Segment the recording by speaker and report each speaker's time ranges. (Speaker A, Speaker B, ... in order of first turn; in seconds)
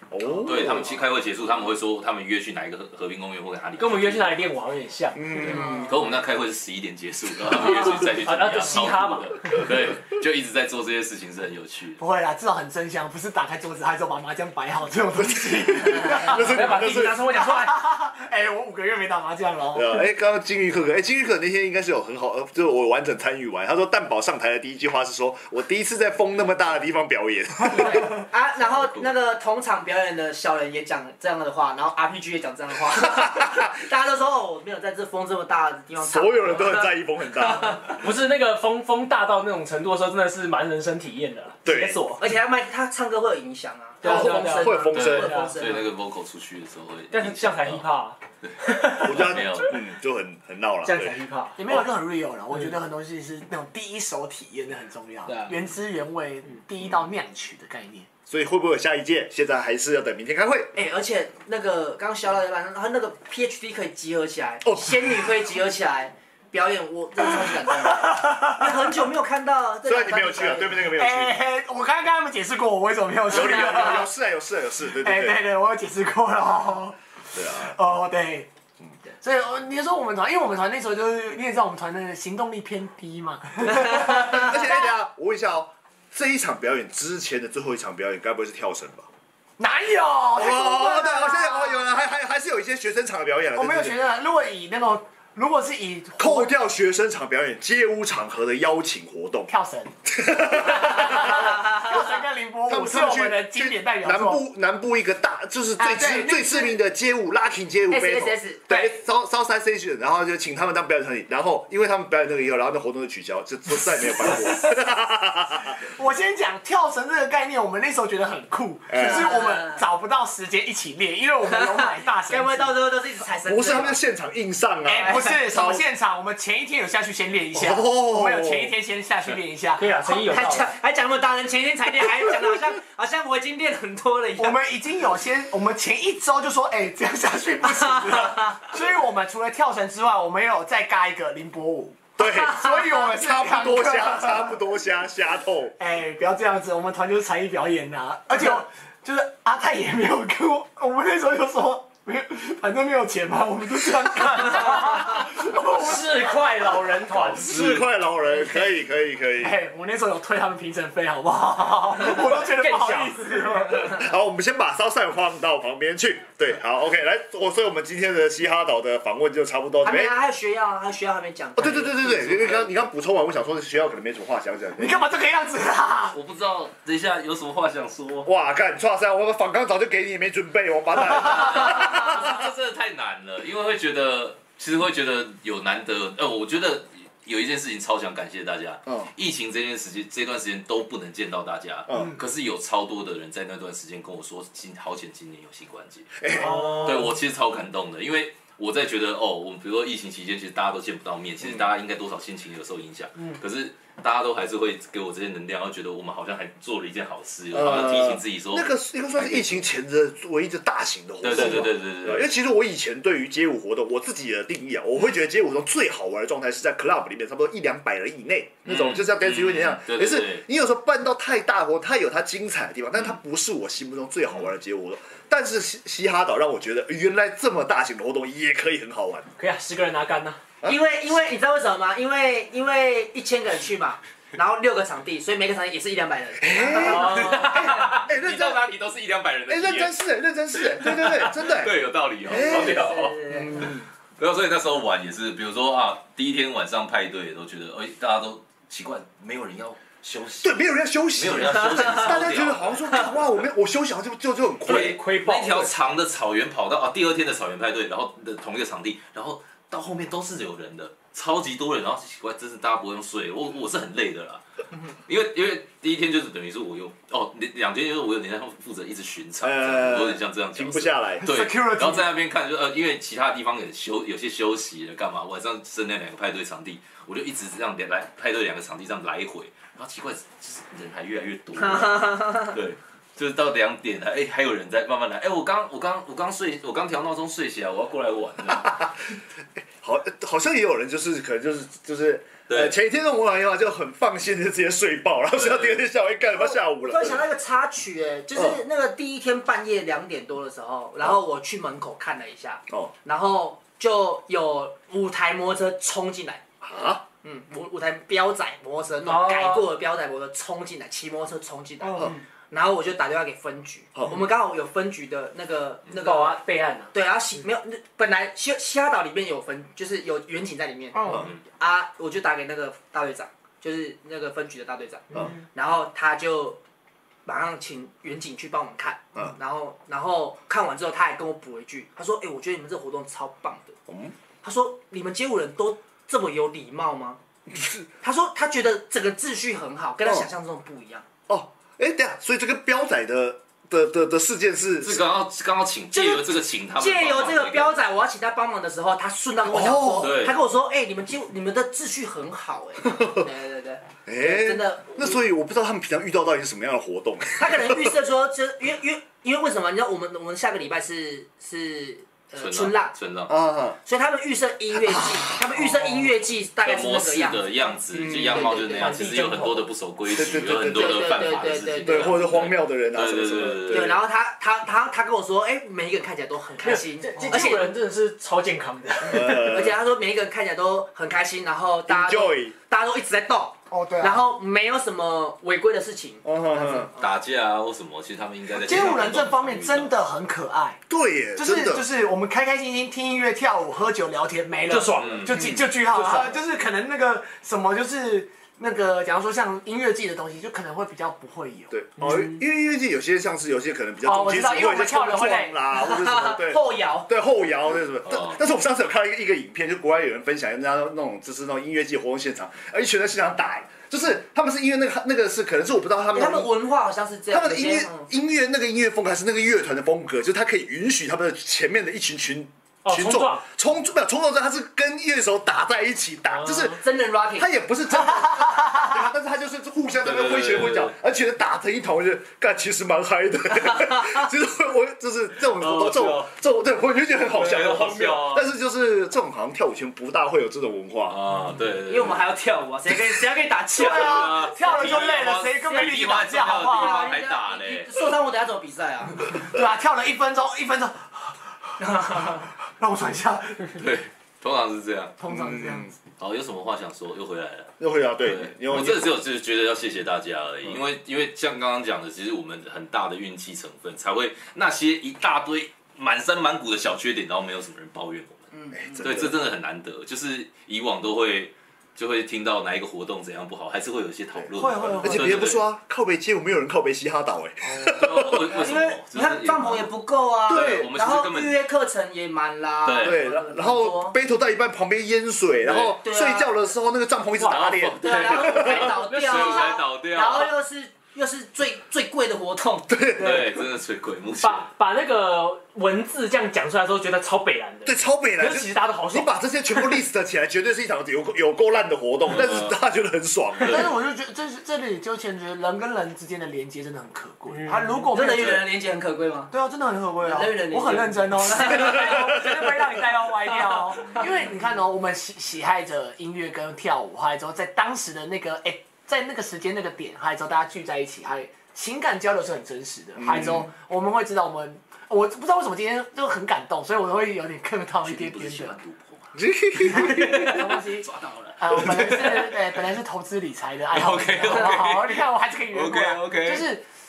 Speaker A: 0.1-1.0, 5.1-5.8, 15.2-17.2, 19.7-28.2, 36.0-37.9, 41.6-42.0, 44.0-45.4, 49.0-51.2, 58.3-60.7, 64.6-65.3, 69.8-71.4, 73.3-75.4, 77.3-77.8, 83.8-89.1, 90.3-94.0, 96.2-99.5, 100.1-102.0, 102.7-115.8, 118.9-119.3, 123.5-125.8, 127.5-128.7, 142.2-145.8, 157.3-159.6, 163.8-170.1, 171.6-175.0, 178.2-182.4, 191.9-192.1, 196.2-196.7, 207.5-229.3, 236.4-238.6, 239.5-241.7, 242.2-242.8, 250.4-255.0, 269.4-271.2, 289.8-297.2, 306.6-307.0, 333.9-334.1, 337.5-337.9, 341.3-345.0, 349.5-350.2, 352.9-353.2, 354.1-357.9, 363.3-363.8, 364.9-365.3, 367.9-368.4, 370.1-371.1, 371.8-374.0, 379.0-379.8, 381.9-382.5, 386.2-386.9, 390.9-391.9, 395.4-396.3, 401.7-416.5, 417.3-426.8, 427.4-441.2, 455.3-455.9, 457.8-459.1, 468.7-469.3, 475.0-478.5, 480.5-480.9, 483.0-488.9, 492.9-493.6, 497.8-503.9, 511.6-512.7, 523.2-523.7, 529.3-530.3
Speaker B: 0.4-4.4, 5.3-12.0, 44.9-47.8, 48.4-49.8, 157.5-157.8, 176.1-178.3, 181.1-209.6, 211.2-212.3, 218.7-220.4, 236.9-239.9, 240.5-243.6, 244.2-253.2, 254.7-264.4, 265.1-288.8, 292.5-292.7, 295.4-295.8, 344.8-347.7, 350.0-350.3, 362.4-363.4, 366.6-374.0, 387.0-389.9, 395.0-395.6, 408.1-408.4, 430.0-430.9, 435.6-436.3, 437.2-438.5, 441.1-442.2, 443.8-447.9, 453.7-455.1, 456.2-468.5, 469.0-475.6, 477.9-479.9, 480.5-481.6, 482.8-483.2, 485.6-486.0, 487.4-490.5, 493.1-494.7, 502.3-502.8, 503.6-503.9, 508.4-508.6, 514.1-514.5, 528.0-529.3, 529.9-532.8, 533.9-536.7
Speaker C: 3.8-5.5, 7.8-9.6, 16.2-17.8, 37.9-42.3, 44.0-45.5, 47.1-49.7, 50.8-51.6, 55.2-55.6, 129.8-130.7, 155.7-157.5, 162.0-163.4, 229.4-230.4, 236.9-237.8, 254.7-255.8, 309.0-309.7, 315.9-316.9, 368.7-369.6, 376.6-379.4, 394.7-396.2, 402.0-402.4, 404.1-405.5, 422.8-423.4, 488.7-489.8, 494.4-499.9, 507.5-508.1, 511.7-514.1
Speaker D: 5.5-5.9, 27.7-37.9, 42.2-45.9, 60.7-70.8, 73.3-74.0, 107.9-108.7, 119.0-119.8, 122.3-124.0, 125.0-125.4, 130.0-134.6, 137.7-138.7, 169.8-172.7, 230.6-237.6, 242.3-243.8, 281.6-282.6, 296.3-306.4, 307.2-316.4, 316.9-326.6, 327.2-333.8, 334.4-337.2, 338.0-341.0, 345.9-355.2, 357.4-362.9, 363.8-369.0, 370.7-372.1, 373.7-377.7, 379.0-387.1, 405.7-407.1, 416.1-418.1, 426.7-427.5, 433.6-434.3, 441.9-444.4, 446.6-449.2, 451.8-452.4, 468.5-469.2, 478.5-484.1, 485.9-486.5, 488.0-492.9, 508.1-509.5, 510.2-512.0
Speaker E: 12.0-16.7, 17.4-20.0, 51.5-58.1, 67.7-68.7, 70.9-74.1, 75.0-77.0, 77.6-78.5, 79.2-84.6, 89.6-91.5, 93.5-96.5, 99.5-99.9, 100.7-104.4, 105.8-106.8, 114.1-114.8, 115.7-122.7, 124.8-129.9, 134.4-144.6, 145.8-157.4, 159.4-164.0, 174.8-176.2, 271.2-272.1, 311.8-312.1, 320.9-321.2, 377.1-377.6, 383.7-384.2, 388.5-390.8, 391.4-401.7, 443.7-447.1, 449.3-453.8, 455.2-455.9, 474.5-475.5, 503.6-508.6, 509.5-528.8, 529.8-531.1, 531.6-536.8